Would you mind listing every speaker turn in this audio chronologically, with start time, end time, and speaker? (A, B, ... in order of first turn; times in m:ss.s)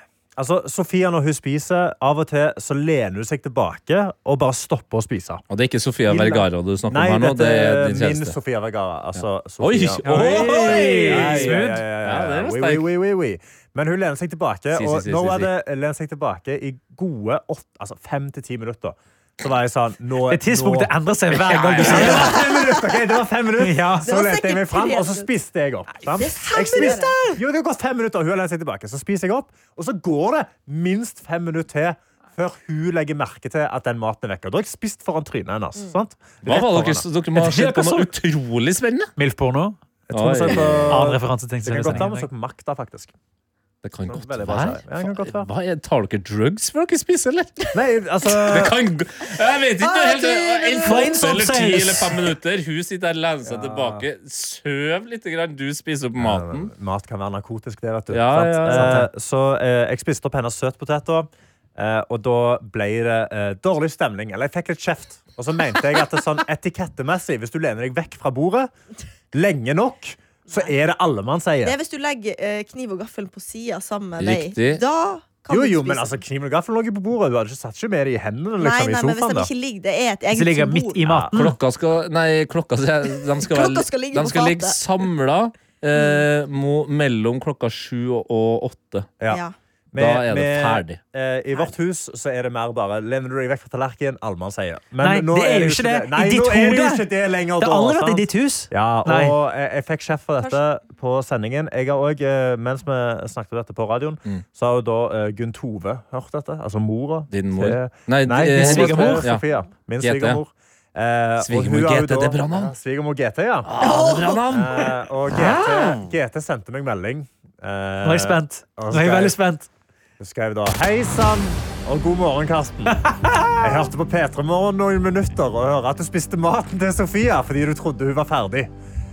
0:00.4-0:05.4 A
0:05.5-0:08.3 B
0:06.1-0:37.0 A
0:09.6-0:12.9 B
0:10.0-0:11.8 C
0:14.7-0:15.5 B
0:20.3-0:22.4 C
0:21.4-0:22.4 B
0:22.1-0:22.8 D
0:23.6-0:24.1 C
0:24.0-0:25.3 D
0:26.0-0:27.1 D
0:26.6-0:27.4 C
0:36.4-0:39.1 B
0:37.3-0:38.1 C
0:39.2-0:39.8 C
0:40.1-0:43.1 A
0:40.1-0:41.1 B
0:40.5-0:42.3 C
0:43.8-0:47.7 B
0:44.1-0:45.5 A
0:47.7-0:48.8 A
0:48.4-0:56.7 B
0:49.8-0:51.3 D
0:50.8-0:52.3 C
0:53.4-0:54.0 A
0:56.2-1:08.7 A
0:58.1-0:59.1 B
0:58.7-0:59.1 C
1:09.3-1:11.7 A
1:11.6-1:16.2 D
1:14.2-1:14.8 B
1:15.5-1:19.5 A
1:18.6-1:21.0 D
1:20.3-1:21.6 C
1:21.0-1:21.3 A
1:21.3-1:29.1 B
1:23.4-1:24.8 D
1:25.9-1:26.2 D
1:29.9-1:53.7 A
1:29.9-1:31.0 B
1:35.0-1:37.0 C
1:37.6-1:39.3 C
1:47.3-1:49.4 B
1:48.5-1:49.3 C
1:50.0-1:50.4 B
1:51.4-1:52.7 B
1:53.6-1:55.0 B
1:53.8-1:54.4 D
1:54.5-1:59.4 A
1:58.0-1:59.7 C
2:00.2-2:08.7 A
2:03.1-2:03.5 C